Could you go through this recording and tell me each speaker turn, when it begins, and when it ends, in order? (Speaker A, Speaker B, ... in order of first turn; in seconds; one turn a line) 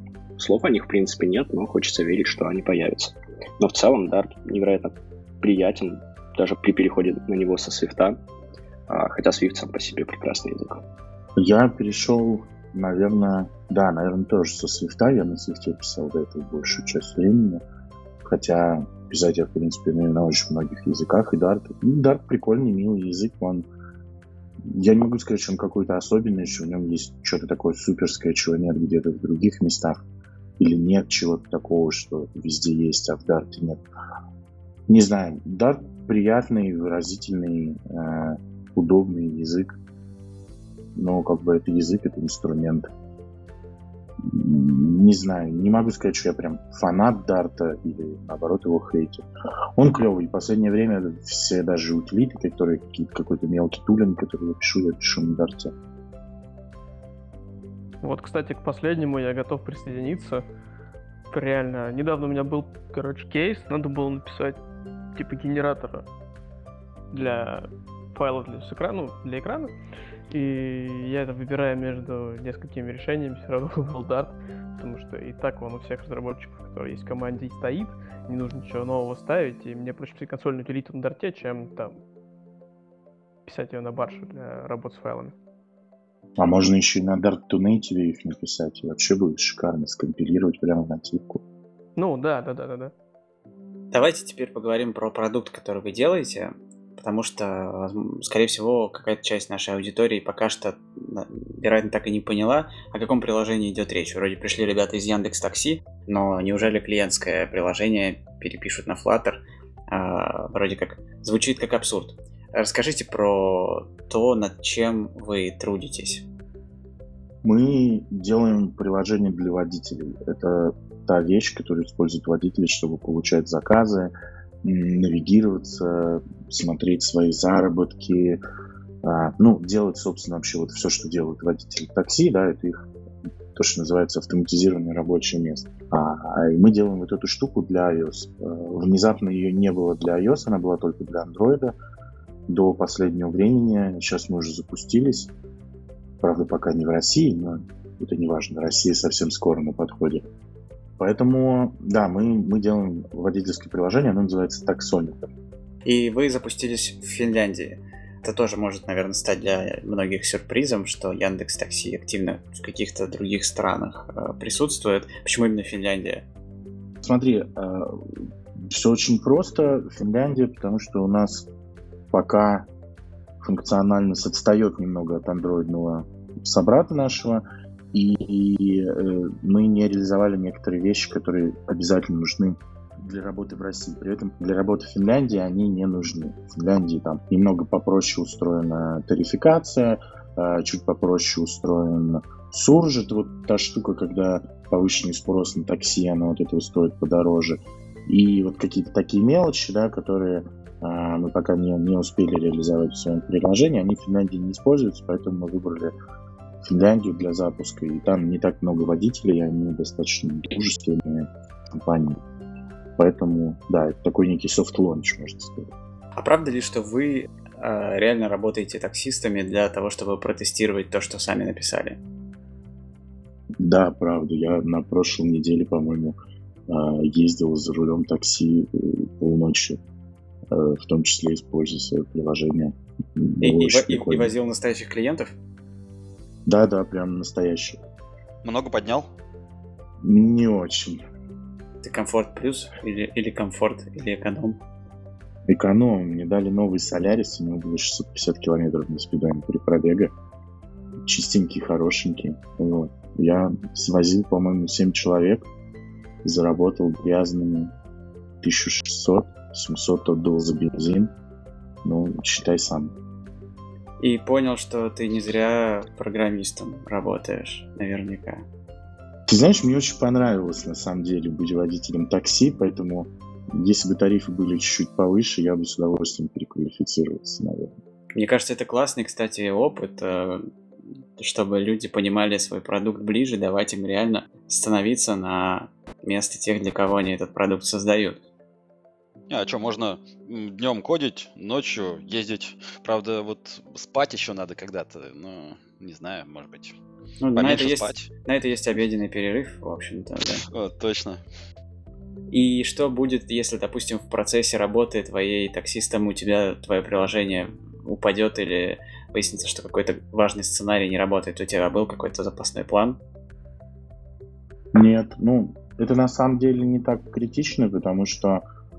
Speaker A: 0.4-8.2
Speaker A: 8.9-10.8
Speaker B: 11.4-17.6
Speaker B: 18.2-23.7
Speaker B: 24.7-30.0
Speaker B: 30.6-33.8
Speaker B: 34.9-39.7
Speaker B: 40.9-42.9
Speaker B: 44.2-49.2
Speaker B: 49.8-55.7
Speaker C: 58.0-60.4
Speaker C: 61.3-64.6
Speaker C: 65.1-66.0
Speaker C: 67.1-69.7
Speaker C: 70.3-82.0
Speaker C: 83.5-85.3
Speaker B: 86.4-91.4
Speaker C: 92.0-92.9
Speaker D: 93.9-116.2
Speaker B: 117.4-128.4
Speaker B: 129.0-132.9
Speaker B: 133.5-141.7
Speaker B: 142.5-145.3
Speaker B: 146.2-150.2
Speaker B: 151.0-155.3
Speaker D: 155.8-166.2
Speaker B: 167.0-168.0
Speaker B: 168.6-171.5
Speaker B: 172.1-172.7
Speaker B: 173.4-205.9
Speaker B: 206.6-212.2
Speaker B: 213.0-215.7
Speaker D: 216.2-222.0
Speaker B: 223.6-226.2
Speaker B: 226.7-229.8
Speaker B: 230.5-234.3
Speaker D: 233.4-235.3
Speaker B: 236.4-237.8
Speaker E: 238.4-239.1
Speaker B: 240.0-241.0
Speaker D: 241.8-244.6
Speaker B: 245.5-250.1
Speaker B: 251.0-255.5
Speaker B: 256.2-257.7
Speaker B: 258.4-261.1
Speaker B: 261.8-262.9
Speaker D: 264.0-268.4
Speaker B: 269.3-277.7
Speaker D: 278.1-280.5
Speaker D: 281.2-288.2
Speaker E: 289.3-296.8
Speaker D: 297.2-300.4
Speaker E: 297.4-298.1
Speaker E: 300.5-301.2
Speaker D: 302.3-313.0
Speaker B: 314.7-318.4